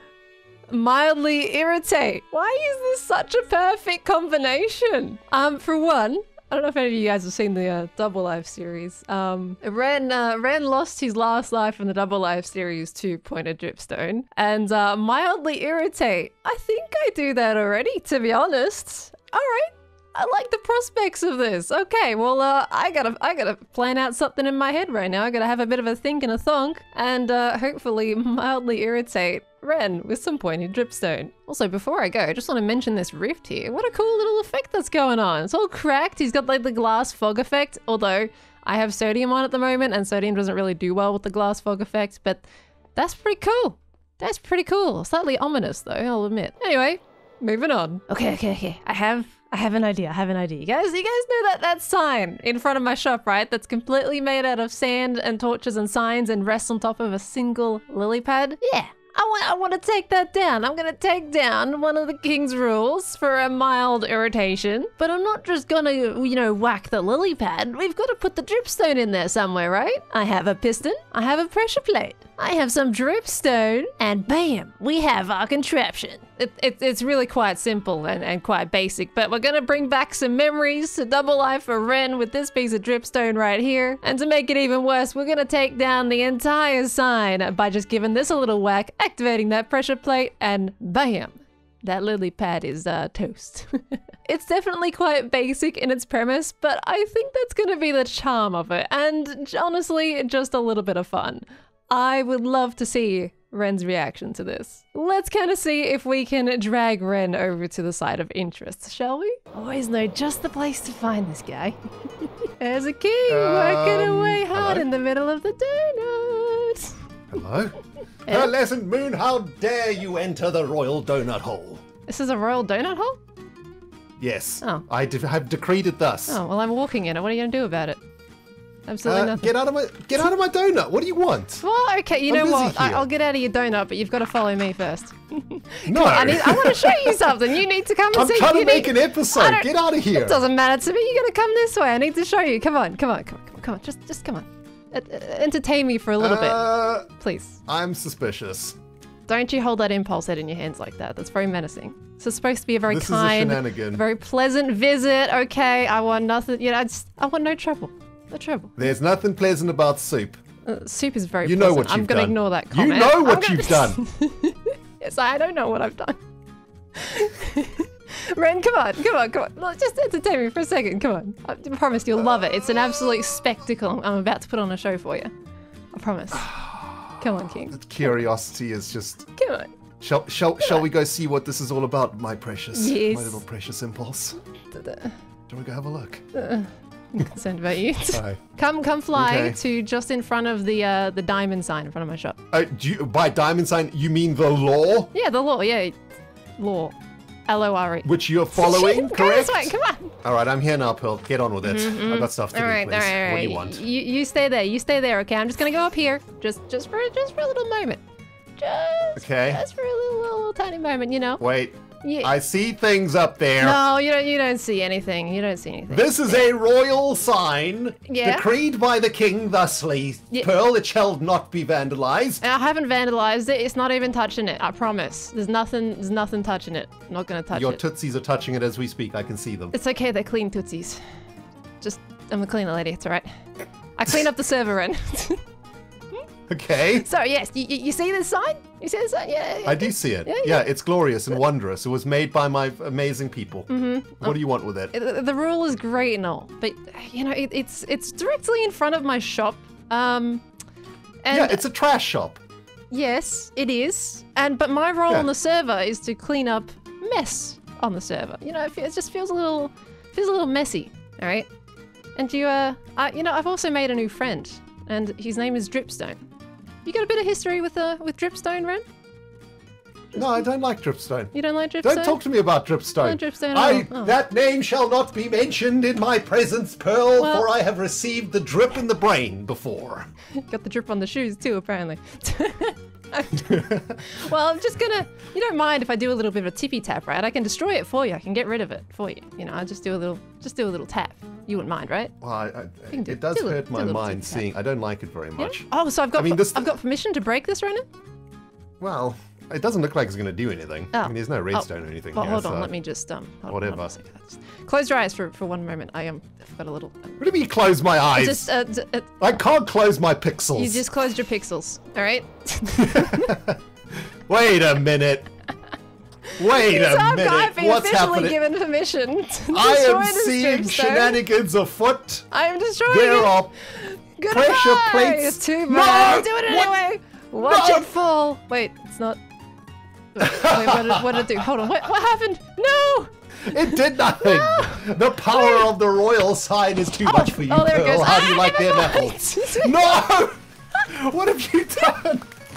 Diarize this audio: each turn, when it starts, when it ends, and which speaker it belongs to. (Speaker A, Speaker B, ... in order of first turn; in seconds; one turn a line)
Speaker A: 0.7-117.0
Speaker B: 113.3-114.9
Speaker B: 117.3-121.8
Speaker A: 122.1-123.2
Speaker B: 124.2-126.4
Speaker A: 126.3-128.0
Speaker A: 128.9-129.5
Speaker B: 129.0-131.6
Speaker A: 131.6-147.6
Speaker B: 132.3-133.1
Speaker B: 135.8-137.5
Speaker B: 138.1-140.4
Speaker B: 146.2-147.1
Speaker B: 147.7-148.8
Speaker A: 149.3-158.8
Speaker B: 152.9-154.0
Speaker B: 158.8-160.4
Speaker A: 160.7-166.2
Speaker B: 161.4-164.0
Speaker A: 166.9-175.3
Speaker B: 172.2-173.1
Speaker A: 175.9-176.5
Speaker B: 176.3-177.2
Speaker A: 177.2-178.1
Speaker B: 177.7-179.3
Speaker A: 179.4-179.7
Speaker B: 180.0-184.4
Speaker A: 182.7-183.4
Speaker A: 184.7-185.2
Speaker B: 185.5-186.2
Speaker A: 186.3-192.4
Speaker B: 188.1-188.4
Speaker B: 189.1-189.6
Speaker B: 192.5-195.1
Speaker A: 195.1-196.0
Speaker A: 196.6-196.9
Speaker A: 197.5-200.1
Speaker B: 198.0-203.8
Speaker A: 201.6-208.0
Speaker A: 208.6-211.4
Speaker B: 209.2-209.6
Speaker B: 211.4-213.8
Speaker A: 212.0-212.3
Speaker A: 213.6-216.4
Speaker B: 215.9-222.4
Speaker A: 218.1-218.4
Speaker A: 222.4-227.8
Speaker B: 227.5-229.7
Speaker A: 229.7-231.0
Speaker A: 231.8-233.3
Speaker A: 233.9-235.4
Speaker B: 236.5-237.1
Speaker A: 236.9-240.7
Speaker B: 239.6-244.9
Speaker A: 243.7-244.4
Speaker A: 244.9-250.4
Speaker A: 251.2-251.6
Speaker B: 251.3-252.4
Speaker A: 252.9-261.5
Speaker A: 262.1-266.2
Speaker A: 266.8-268.8
Speaker B: 270.1-280.1
Speaker A: 271.3-272.2
Speaker A: 273.0-274.1
Speaker A: 277.2-277.5
Speaker A: 280.3-292.1
Speaker B: 283.5-284.0
Speaker B: 292.2-296.7
Speaker A: 292.9-294.5
Speaker A: 295.4-297.9
Speaker B: 298.8-302.7
Speaker A: 300.9-307.2
Speaker B: 303.5-303.9
Speaker B: 307.2-308.5
Speaker A: 308.1-309.2
Speaker B: 309.2-310.8
Speaker A: 310.6-313.4
Speaker B: 312.7-315.3
Speaker A: 316.3-321.2
Speaker B: 316.4-318.4
Speaker B: 319.5-322.3
Speaker A: 322.3-329.2
Speaker B: 322.9-323.5
Speaker B: 324.3-326.7
Speaker B: 327.4-327.9
Speaker A: 330.1-334.8
Speaker B: 330.2-331.3
Speaker B: 333.4-342.3
Speaker A: 335.3-335.6
Speaker A: 337.0-339.8